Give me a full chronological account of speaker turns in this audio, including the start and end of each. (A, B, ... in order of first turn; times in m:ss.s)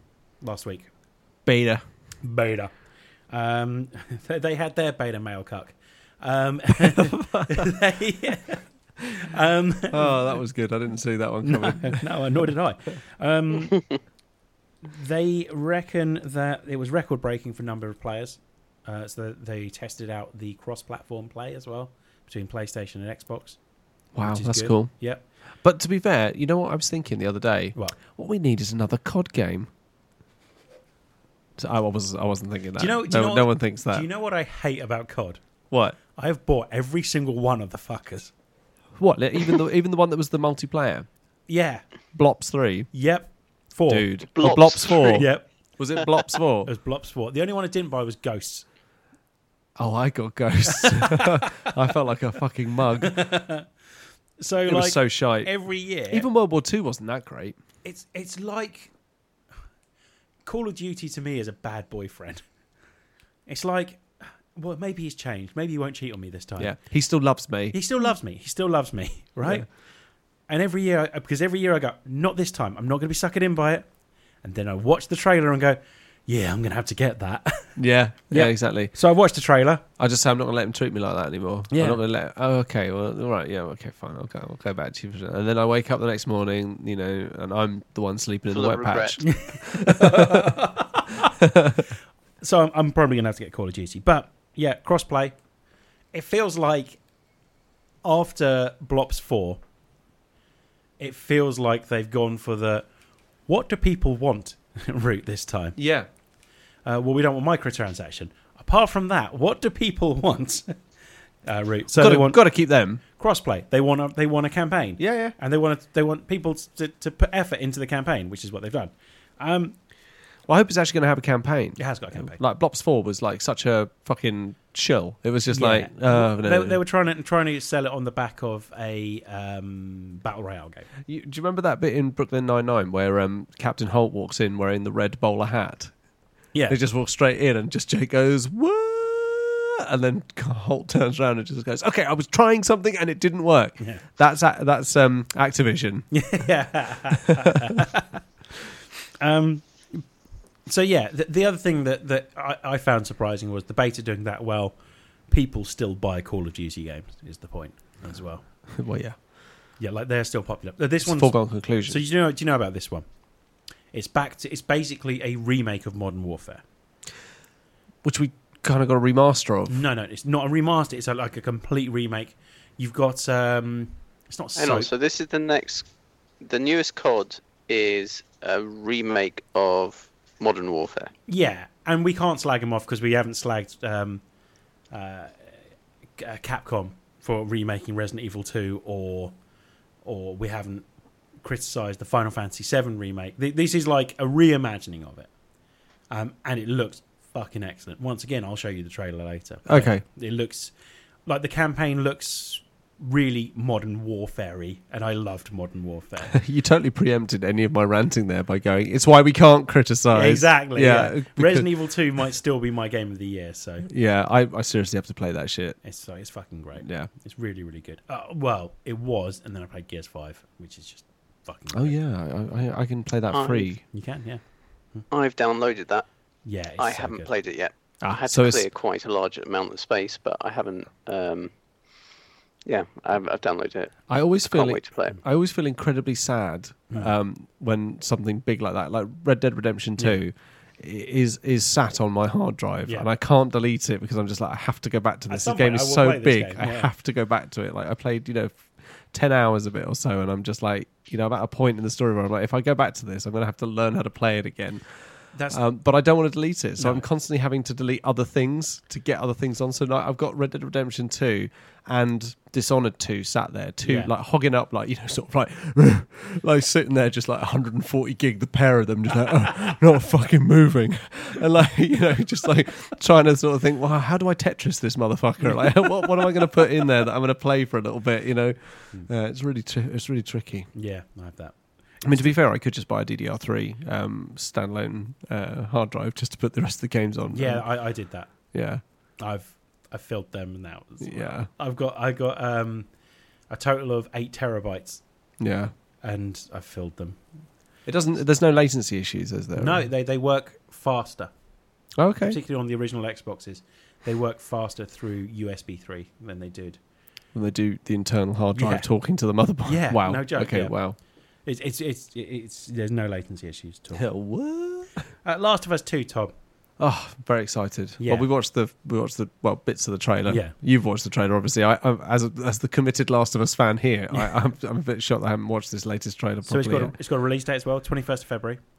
0:00.4-0:00.9 A
0:01.4-0:01.8 B
0:02.2-0:02.7 A
0:03.3-0:08.6 A
0:06.8-0:07.7 B
0:09.1-0:10.3 A
0:09.9-0:12.0 B
0:11.4-0:13.9 A
0:14.8-0:23.6 A
0:24.1-0:24.9 B
0:24.2-0:25.2 A
0:25.6-0:29.7 B
0:31.6-0:34.0 B
0:32.8-0:35.4 A
0:35.7-0:36.0 B
0:36.1-0:38.3 A
0:39.0-0:41.1 B
0:41.5-0:41.8 A
0:42.1-0:42.9 B
0:42.9-0:45.4 A
0:43.9-0:46.7 B
0:44.4-0:44.8 C
0:46.6-0:48.6 A
0:49.8-0:53.2 B
0:50.7-0:51.7 A
0:53.0-0:53.7 A
0:54.4-0:56.3 A
0:54.6-0:55.5 B
0:56.1-0:57.6 B
0:57.8-0:58.9 A
1:00.4-1:02.4 A
1:03.5-1:06.8 A
1:06.6-1:07.8 B
1:07.7-1:09.7 A
1:10.5-1:13.8 A
1:14.4-1:17.7 A
1:17.8-1:18.9 B
1:18.3-1:19.8 A
1:20.0-1:30.5 B
1:21.7-1:22.0 A
1:28.5-1:29.2 C
1:29.2-1:31.3 A
1:31.4-1:31.8 B
1:32.4-1:35.4 A
1:36.1-1:37.0 A
1:38.0-1:39.6 A
1:41.0-1:42.9 A
1:43.5-1:45.8 A
1:45.8-1:46.1 B
1:46.8-1:50.8 A
1:51.4-1:52.4 A
1:51.9-1:53.0 B
1:53.2-1:59.7 A
1:55.0-1:55.3 B
2:00.5-2:06.8 B
2:01.8-2:02.4 A
2:05.5-2:10.9 A
2:11.0-2:15.9 B
2:16.7-2:26.1 B
2:26.1-2:28.2 A
2:29.2-2:30.0 A
2:30.6-2:34.8 A
2:35.3-2:38.4 A
2:38.8-2:39.2 B
2:39.8-2:43.0 A
2:41.0-2:42.0 B
2:43.9-2:46.6 A
2:48.0-2:49.8 B
2:49.7-2:54.9 A
2:54.6-2:55.9 C
2:56.4-3:01.1 C
3:01.3-3:04.2 A
3:04.9-3:05.4 A
3:06.2-3:09.3 A
3:10.0-3:10.8 A
3:11.4-3:15.3 A
3:16.1-3:20.7 A
3:19.7-3:20.0 B
3:21.2-3:26.4 A
3:26.3-3:31.7 B
3:30.1-3:33.9 A
3:33.8-3:35.8 B
3:35.8-3:42.0 A
3:36.8-3:37.1 B
3:41.7-3:43.8 B
3:43.3-3:43.7 C
3:43.9-3:44.4 A
3:45.1-3:46.0 C
3:46.4-3:47.3 A
3:46.8-3:51.5 C
3:48.0-3:48.7 B
3:52.6-3:55.2 C
3:54.1-4:14.9 B
4:05.3-4:06.9 A
4:15.3-4:15.6 A
4:15.5-4:40.7 B
4:16.8-4:17.0 A
4:23.8-4:24.1 A
4:40.7-4:41.5 A
4:42.0-4:47.6 B
4:47.3-4:48.3 A
4:48.5-4:48.8 B
4:49.2-4:52.9 A
4:51.0-4:51.5 B
4:53.5-4:55.0 A
4:55.4-4:55.7 B
4:56.0-4:57.2 A
4:57.8-4:59.8 B
4:59.5-5:01.3 A
5:02.0-5:02.4 B
5:02.3-5:06.8 A
5:07.3-5:11.0 B
5:08.5-5:08.9 A
5:09.6-5:10.8 A
5:11.4-5:14.0 A
5:13.9-5:15.0 B
5:15.2-5:16.3 A
5:16.8-5:26.9 B
5:18.0-5:18.2 A
5:20.3-5:20.5 A
5:26.5-5:28.6 A